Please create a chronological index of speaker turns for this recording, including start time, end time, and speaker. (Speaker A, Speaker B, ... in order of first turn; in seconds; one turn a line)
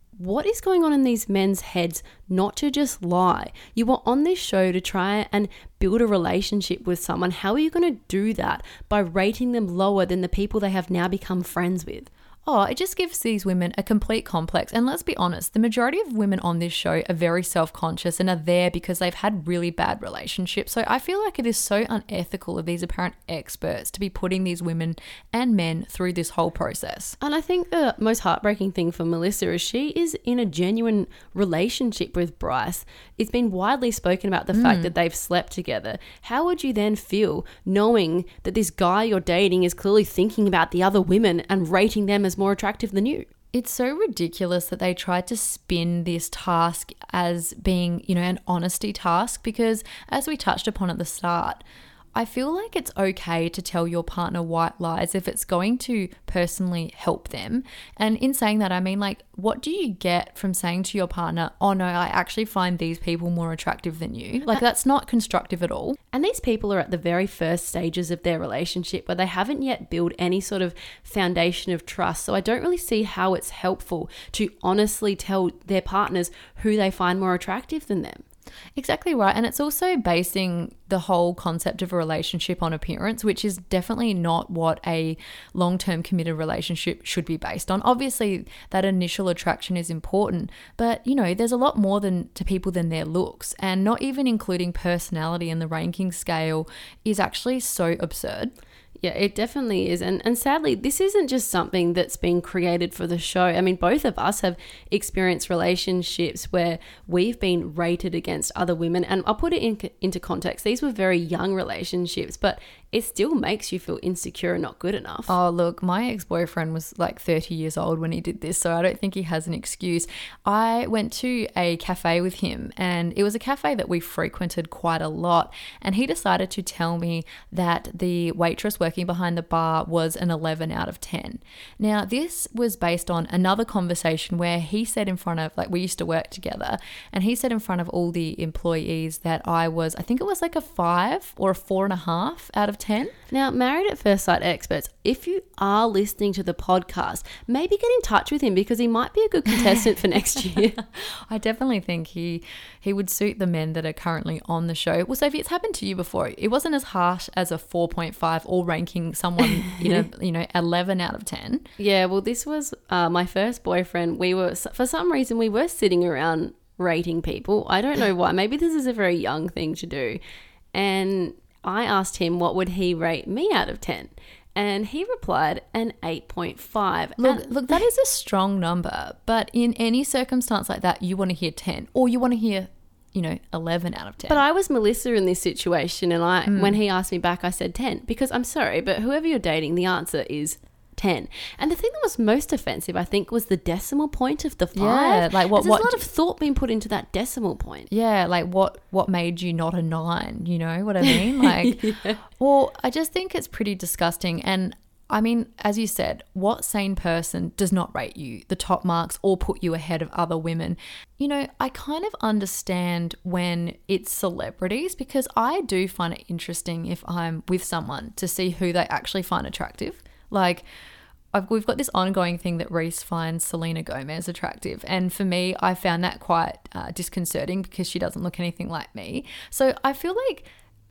Speaker A: 0.2-12.1
Speaker B: 12.4-27.1
Speaker A: 27.2-43.3
Speaker B: 34.5-34.9
Speaker B: 43.5-51.6
Speaker B: 52.1-66.0
Speaker A: 66.1-78.2
Speaker B: 78.8-98.5
Speaker A: 99.0-115.3
Speaker B: 115.3-143.1
Speaker A: 143.3-150.8
Speaker B: 150.8-161.7
Speaker A: 161.8-170.2
Speaker A: 170.7-177.5
Speaker B: 177.2-184.4
Speaker A: 184.3-197.9
Speaker B: 186.4-186.8
Speaker B: 194.7-196.0
Speaker B: 197.9-220.6
Speaker A: 201.0-202.2
Speaker B: 221.3-230.5